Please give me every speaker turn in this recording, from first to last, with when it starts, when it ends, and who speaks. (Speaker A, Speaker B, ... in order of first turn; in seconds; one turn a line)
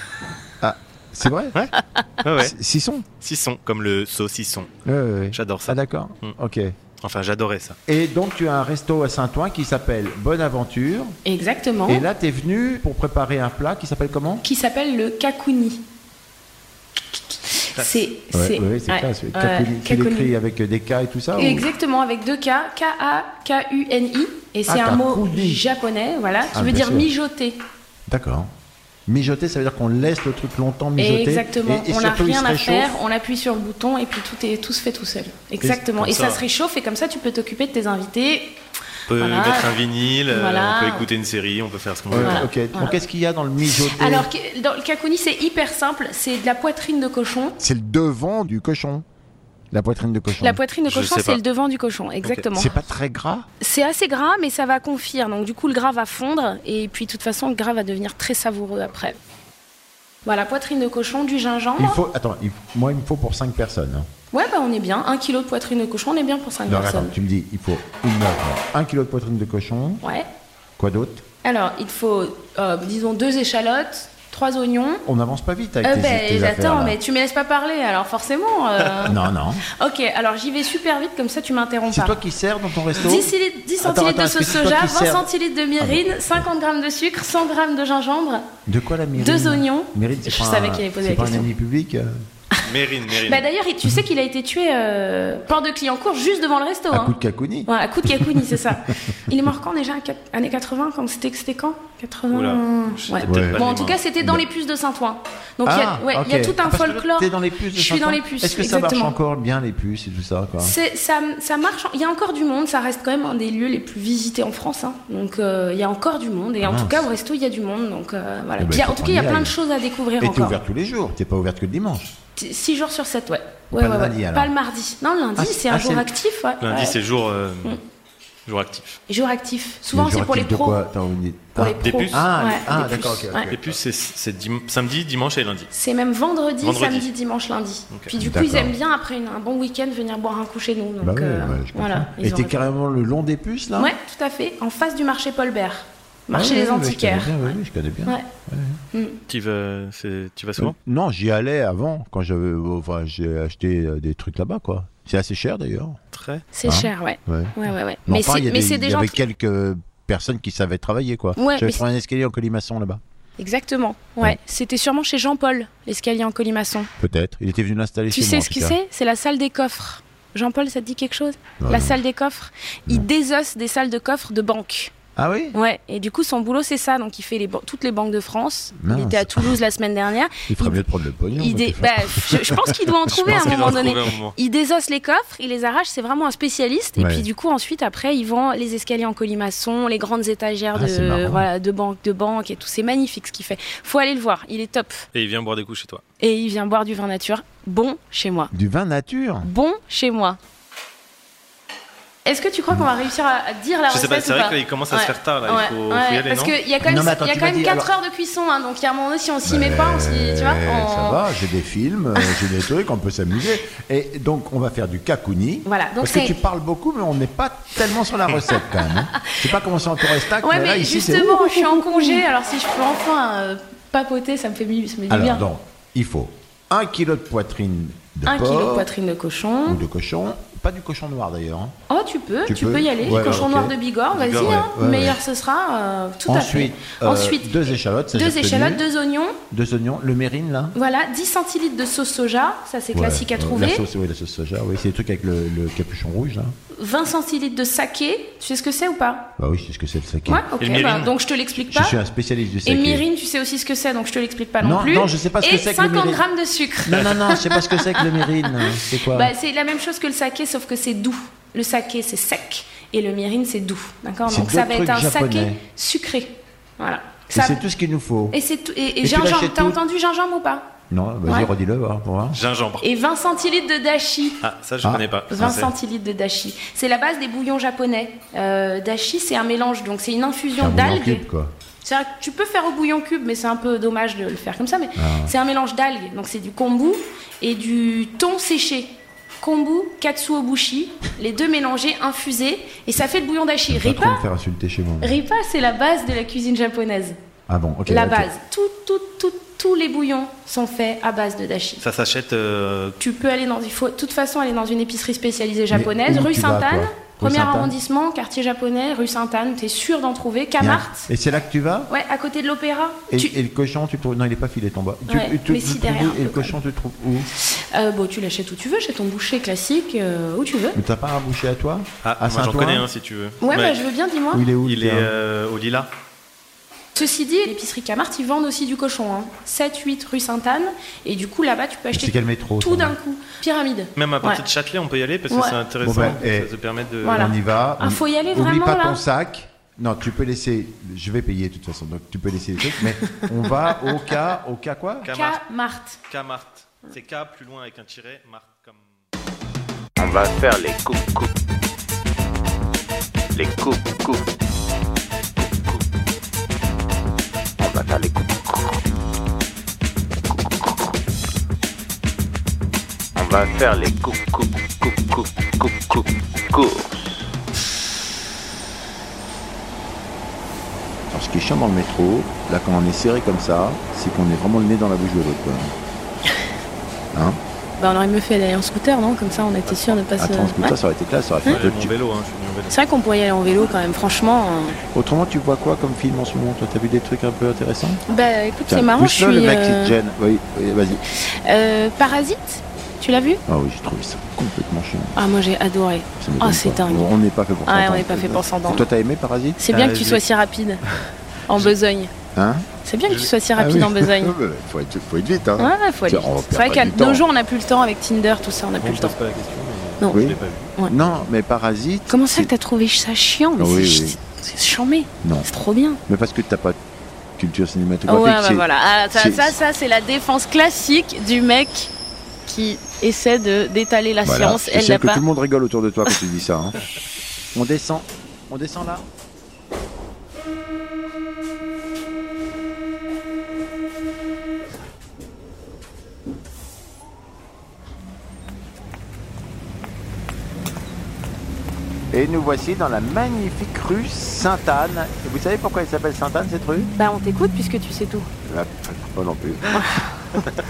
Speaker A: 0.6-1.6
Speaker B: 1.5-2.5
Speaker A: 2.4-3.1
Speaker B: 3.2-4.7
Speaker A: 4.9-6.8
Speaker B: 5.3-6.4
Speaker B: 7.0-7.8
Speaker A: 7.9-11.2
Speaker C: 11.2-12.0
Speaker A: 11.9-14.4
Speaker C: 14.4-15.8
Speaker C: 17.1-20.3
Speaker B: 17.8-18.1
Speaker A: 18.3-21.7
Speaker C: 21.4-27.6
Speaker A: 24.7-25.6
Speaker A: 26.5-27.1
Speaker A: 28.1-28.5
Speaker A: 29.1-33.0
Speaker C: 31.0-38.6
Speaker A: 35.6-36.1
Speaker B: 36.0-36.4
Speaker B: 39.1-42.5
Speaker C: 39.1-39.7
Speaker C: 40.3-41.1
Speaker A: 42.1-44.3
Speaker C: 42.2-42.9
Speaker C: 43.7-47.6
Speaker A: 47.6-49.0
Speaker A: 49.7-50.6
Speaker C: 50.4-52.7
Speaker B: 50.9-51.4
Speaker A: 52.5-53.5
Speaker C: 53.6-59.2
Speaker C: 60.2-62.0
Speaker A: 61.8-64.1
Speaker C: 64.3-67.1
Speaker A: 66.7-70.0
Speaker C: 70.0-70.3
Speaker A: 70.8-71.2
Speaker C: 71.4-75.0
Speaker A: 75.1-77.0
Speaker C: 75.8-82.2
Speaker A: 79.0-79.6
Speaker A: 81.9-85.3
Speaker C: 82.9-88.5
Speaker A: 85.8-86.5
Speaker A: 88.7-92.2
Speaker C: 89.2-91.5
Speaker B: 92.6-93.4
Speaker C: 93.2-109.2
Speaker A: 96.9-98.4
Speaker B: 102.3-104.0
Speaker A: 103.3-103.6
Speaker A: 105.6-110.8
Speaker C: 110.6-120.6
Speaker A: 116.6-117.1
Speaker A: 118.6-119.5
Speaker A: 120.2-122.1
Speaker C: 122.4-127.0
Speaker A: 123.7-124.5
Speaker A: 125.4-126.1
Speaker B: 126.6-127.8
Speaker B: 128.4-129.0
Speaker C: 129.1-130.8
Speaker A: 129.9-133.7
Speaker C: 131.6-133.5
Speaker B: 131.8-132.2
Speaker B: 133.5-135.7
Speaker C: 135.7-142.6
Speaker B: 136.6-137.1
Speaker A: 138.1-138.8
Speaker A: 141.0-143.9
Speaker C: 143.8-148.3
Speaker A: 146.3-148.8
Speaker C: 148.9-149.2
Speaker B: 149.3-150.8
Speaker A: 150.6-156.0
Speaker B: 156.1-156.5
Speaker C: 156.5-159.2
Speaker A: 156.6-163.0
Speaker C: 161.4-161.8
Speaker C: 163.4-166.9
Speaker A: 167.0-168.8
Speaker C: 168.1-174.9
Speaker A: 171.6-172.0
Speaker A: 175.2-175.6
Speaker C: 175.5-180.8
Speaker A: 178.8-179.5
Speaker A: 180.5-183.5
Speaker C: 181.4-195.1
Speaker B: 183.1-184.3
Speaker A: 187.0-187.3
Speaker A: 190.7-191.4
Speaker B: 195.1-196.0
Speaker C: 196.2-198.5
Speaker A: 198.5-199.5
Speaker C: 199.4-200.4
Speaker C: 202.2-211.2
Speaker B: 203.9-206.6
Speaker A: 206.8-207.9
Speaker A: 209.4-222.2
Speaker C: 215.7-216.4
Speaker C: 220.0-225.4
Speaker A: 225.1-228.9
Speaker C: 228.2-229.8
Speaker A: 229.7-231.8
Speaker C: 231.9-239.4
Speaker A: 232.4-233.8
Speaker B: 233.0-233.4
Speaker B: 234.1-234.6
Speaker A: 234.4-235.2
Speaker A: 236.3-238.8
Speaker A: 239.5-240.8
Speaker C: 240.7-243.8
Speaker A: 242.9-246.5
Speaker C: 246.7-249.3
Speaker A: 249.4-250.4
Speaker C: 250.3-252.0
Speaker B: 250.6-251.1
Speaker A: 251.5-253.0
Speaker C: 252.6-267.6
Speaker A: 254.6-256.2
Speaker A: 256.9-259.3
Speaker A: 264.2-265.6
Speaker A: 267.3-268.4
Speaker C: 268.3-270.7
Speaker A: 269.0-269.8
Speaker A: 270.9-272.4
Speaker B: 272.3-272.8
Speaker C: 272.8-274.4
Speaker B: 274.4-275.7
Speaker C: 275.3-281.2
Speaker A: 280.6-281.5
Speaker C: 281.8-294.2
Speaker A: 285.0-285.3
Speaker A: 293.7-295.2
Speaker C: 295.0-297.2
Speaker A: 297.5-298.3
Speaker C: 297.9-301.8
Speaker B: 301.8-303.0
Speaker C: 303.0-311.1
Speaker A: 305.7-307.8
Speaker A: 310.6-311.9
Speaker C: 311.9-313.3
Speaker A: 313.1-317.3
Speaker C: 315.1-316.6
Speaker C: 317.4-320.8
Speaker A: 320.8-322.9
Speaker B: 322.0-323.8
Speaker C: 323.4-324.4
Speaker A: 324.3-325.1
Speaker B: 324.6-325.9
Speaker C: 326.9-334.4
Speaker A: 331.9-332.9
Speaker B: 334.0-337.3
Speaker C: 335.3-335.6
Speaker A: 335.8-345.1
Speaker C: 337.0-339.0
Speaker C: 342.7-343.3
Speaker B: 345.0-345.4
Speaker C: 345.1-346.0
Speaker B: 346.1-348.9
Speaker D: 350.0-351.3
Speaker D: 353.3-354.3
Speaker D: 355.4-355.8
Speaker D: 357.6-358.8
Speaker D: 360.3-360.9
Speaker D: 363.1-367.3
Speaker A: 371.1-375.8
Speaker A: 377.1-377.4
Speaker C: 377.8-380.8
Speaker B: 379.7-380.0
Speaker A: 380.2-381.9
Speaker B: 381.5-382.7
Speaker C: 382.7-384.8
Speaker A: 384.9-388.0
Speaker C: 388.1-389.9
Speaker A: 388.7-391.0
Speaker C: 391.1-393.4
Speaker A: 393.5-395.2
Speaker C: 395.1-397.1
Speaker A: 396.2-399.6
Speaker C: 397.6-398.9
Speaker C: 399.6-400.8
Speaker B: 399.7-400.2
Speaker C: 401.5-402.1
Speaker A: 402.4-402.7
Speaker C: 402.8-404.4
Speaker A: 403.5-407.2
Speaker C: 405.6-409.1
Speaker B: 408.8-410.8
Speaker A: 410.1-412.5
Speaker C: 412.1-416.0
Speaker A: 413.6-414.2
Speaker A: 415.2-415.5
Speaker A: 416.1-416.8
Speaker A: 417.4-419.5
Speaker C: 418.1-421.9
Speaker C: 422.5-425.2
Speaker A: 424.2-426.8
Speaker A: 427.5-429.1
Speaker A: 442.1-446.9
Speaker C: 446.9-448.3
Speaker A: 448.5-450.0
Speaker C: 449.7-450.1